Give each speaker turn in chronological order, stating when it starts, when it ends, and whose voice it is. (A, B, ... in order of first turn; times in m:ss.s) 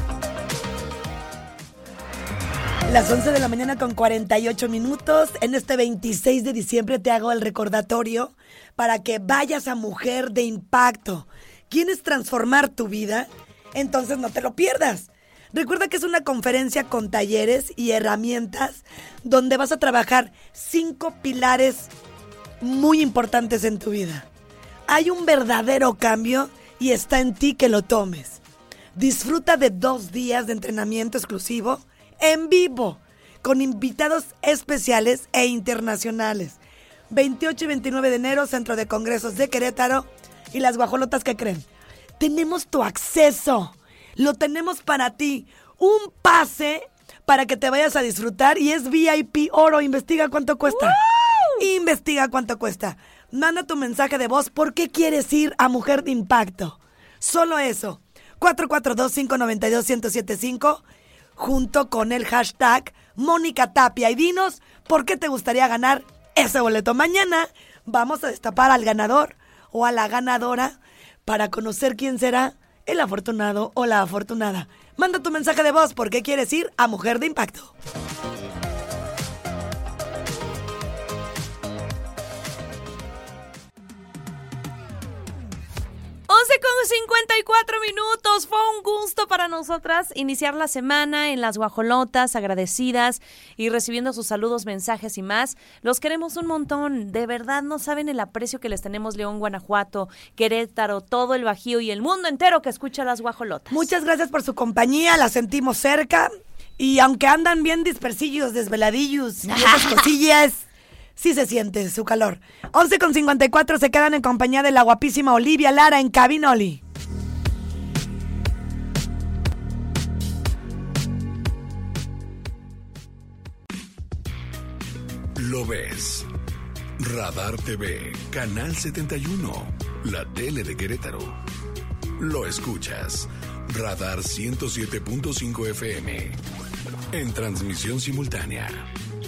0:02.9-0:21.9 A
0:22.6-0:24.3 A
0:24.9-0:28.4 A
0:28.9-0:36.6 A
0:37.1-0:41.6 A
0:42.2-0:51.0 A
0:50.7-0:51.7 B
0:51.6-1:00.8 A
1:01.4-1:17.7 A
1:26.3-1:43.9 B
1:43.7-1:50.6 A
1:49.5-1:50.1 B
1:51.2-1:56.8 A
2:05.4-2:06.3 C
2:07.0-2:11.4 C
2:12.2-2:16.4 C
2:17.1-2:18.9 C